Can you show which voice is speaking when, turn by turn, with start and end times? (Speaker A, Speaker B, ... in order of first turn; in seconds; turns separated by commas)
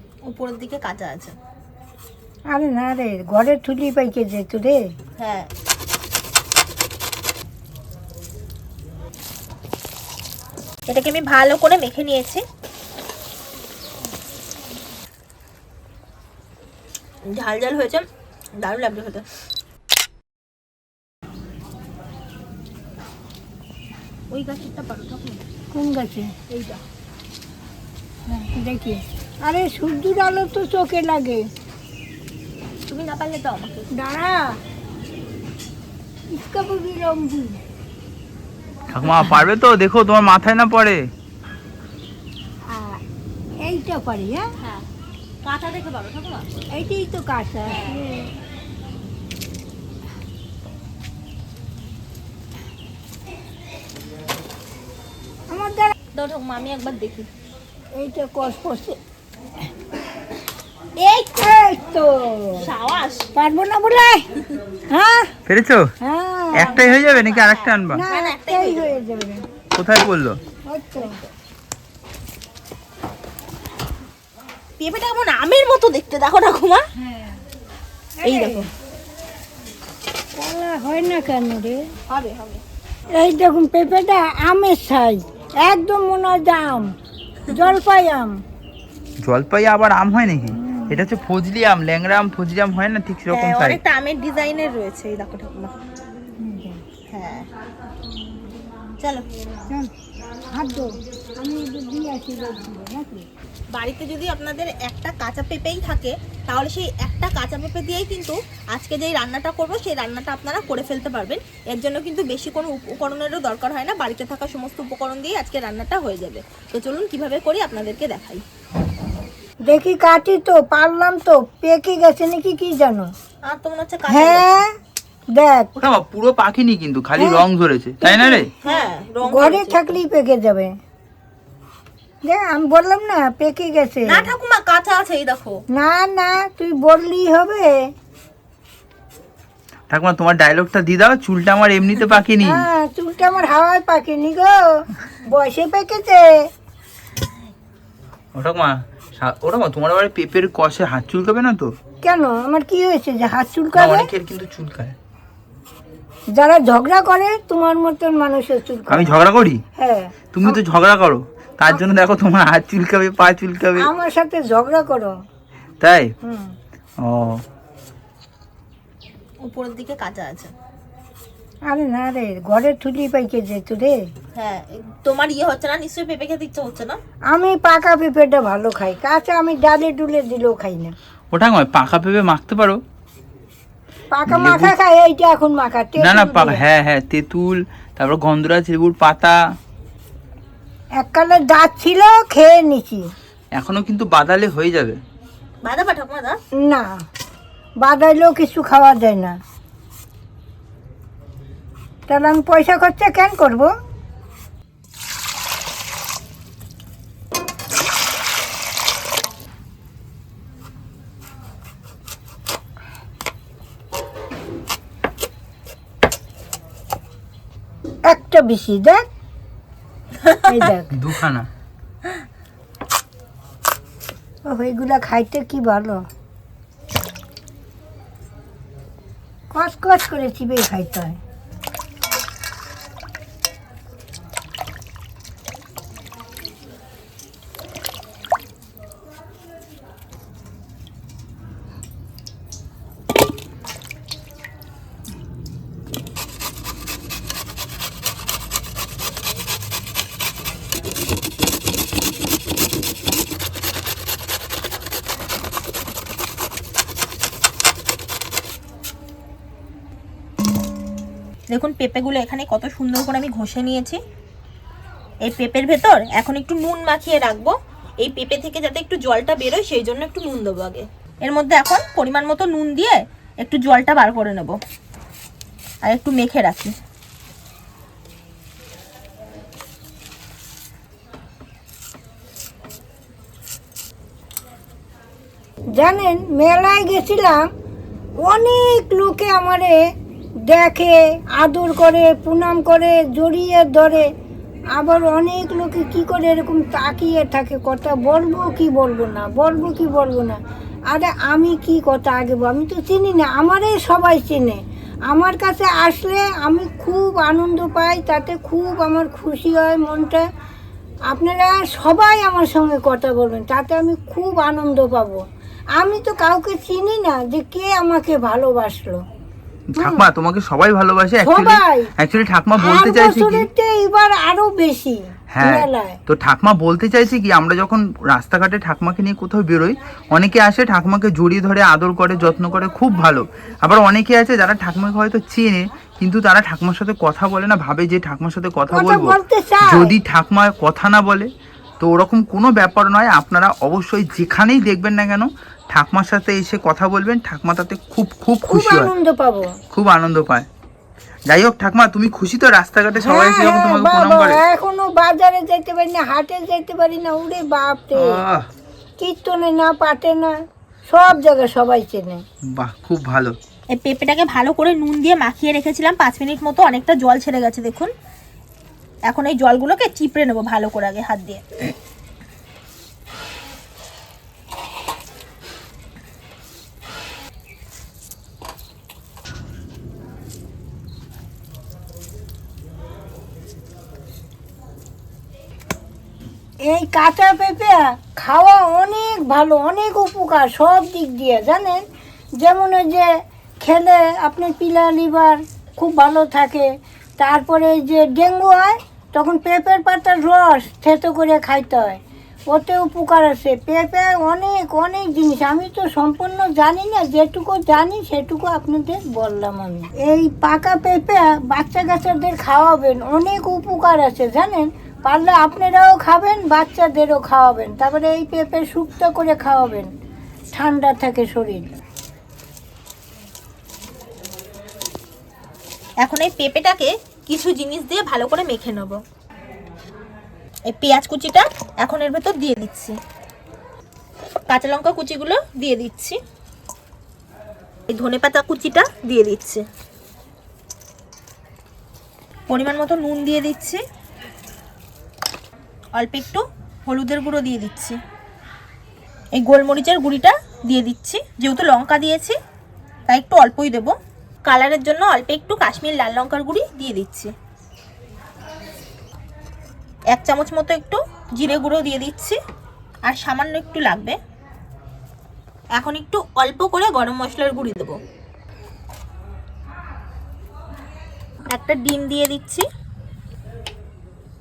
Speaker A: 0.3-1.3, Speaker B: 2.5-4.8, Speaker A: 5.2-5.5, Speaker A: 10.9-12.4, Speaker A: 17.3-18.1, Speaker A: 18.6-19.2, Speaker A: 24.3-25.4, Speaker B: 25.7-26.3, Speaker A: 26.5-26.8, Speaker B: 28.3-31.5, Speaker A: 32.9-33.9, Speaker B: 33.9-34.6, Speaker B: 36.3-37.6, Speaker C: 38.9-41.0, Speaker B: 42.7-43.0, Speaker B: 43.6-44.5, Speaker A: 44.6-44.8, Speaker A: 45.4-46.5, Speaker B: 46.8-48.3, Speaker A: 47.7-48.0, Speaker B: 55.5-55.9, Speaker A: 56.1-57.3, Speaker B: 58.0-59.0, Speaker A: 61.0-61.4, Speaker B: 61.4-62.7, Speaker A: 62.5-63.3, Speaker B: 63.4-64.2, Speaker B: 64.9-65.3, Speaker C: 65.5-65.9, Speaker B: 66.0-66.8, Speaker C: 66.5-68.0, Speaker A: 66.5-68.9, Speaker B: 67.9-69.4, Speaker C: 69.7-70.4, Speaker B: 70.7-71.2, Speaker A: 74.8-76.8, Speaker B: 77.0-77.4, Speaker B: 78.2-78.7, Speaker A: 78.2-78.7, Speaker B: 80.3-81.8, Speaker A: 82.1-82.6, Speaker B: 83.1-86.9, Speaker B: 87.5-88.3, Speaker C: 89.2-93.8, Speaker B: 90.5-91.1, Speaker A: 93.3-95.7, Speaker B: 96.4-96.8, Speaker A: 97.1-97.5, Speaker A: 99.0-99.2, Speaker B: 100.5-103.2, Speaker A: 103.7-118.4, Speaker B: 119.7-123.1, Speaker A: 123.5-124.5, Speaker B: 124.1-124.7, Speaker B: 125.3-125.7, Speaker C: 125.8-128.5, Speaker B: 127.2-127.4, Speaker B: 128.0-130.8, Speaker A: 128.6-130.0, Speaker B: 132.2-134.3, Speaker A: 134.1-135.6, Speaker B: 135.7-137.8, Speaker C: 139.9-142.6, Speaker B: 142.4-146.3, Speaker C: 148.3-151.7, Speaker B: 152.0-154.1, Speaker C: 153.8-154.9, Speaker B: 156.3-159.1, Speaker C: 158.9-159.6, Speaker B: 159.8-160.6, Speaker C: 160.3-163.9, Speaker B: 163.8-165.1, Speaker C: 165.8-166.1, Speaker B: 166.2-166.5, Speaker C: 167.0-167.4, Speaker A: 169.4-170.5, Speaker B: 171.7-174.0, Speaker A: 174.3-177.0, Speaker B: 177.3-180.9, Speaker C: 181.3-182.8, Speaker B: 184.1-186.6, Speaker C: 184.3-184.7, Speaker C: 186.0-189.4, Speaker B: 191.0-193.0, Speaker C: 193.6-195.0, Speaker A: 195.6-196.4, Speaker B: 196.6-196.9, Speaker B: 197.8-199.4, Speaker B: 202.1-203.7, Speaker B: 218.1-219.1, Speaker A: 220.2-220.6, Speaker B: 220.5-220.9, Speaker C: 220.9-221.5, Speaker B: 224.5-226.0, Speaker B: 229.5-231.2, Speaker A: 261.5-264.0, Speaker A: 265.2-274.6, Speaker A: 275.9-276.8, Speaker B: 285.8-287.5, Speaker B: 288.2-289.8, Speaker B: 290.5-294.1, Speaker B: 294.8-300.4, Speaker B: 300.9-310.2, Speaker B: 311.1-315.2, Speaker B: 315.8-319.0, Speaker C: 319.8-323.5, Speaker B: 319.8-320.1, Speaker B: 321.2-321.9, Speaker B: 322.6-326.0, Speaker C: 325.3-341.3, Speaker B: 338.7-339.9, Speaker C: 341.8-348.9, Speaker B: 348.5-349.5, Speaker C: 349.7-350.5, Speaker C: 351.3-354.4, Speaker B: 353.0-358.2, Speaker C: 357.9-358.5, Speaker B: 359.0-360.4, Speaker B: 360.9-362.2, Speaker C: 362.5-363.4, Speaker A: 363.7-367.9, Speaker A: 369.1-371.4, Speaker B: 386.7-391.8, Speaker B: 392.4-393.1, Speaker B: 393.6-396.7, Speaker B: 397.2-402.0, Speaker B: 402.5-419.9, Speaker B: 420.5-421.8, Speaker A: 426.0-429.0, Speaker A: 430.7-433.0, Speaker A: 434.5-436.2, Speaker A: 437.9-439.6, Speaker A: 442.5-443.8, Speaker A: 446.0-448.0, Speaker A: 449.4-452.4, Speaker A: 453.1-457.3, Speaker A: 460.1-462.4, Speaker A: 463.1-464.2, Speaker A: 465.8-468.0, Speaker A: 471.5-472.6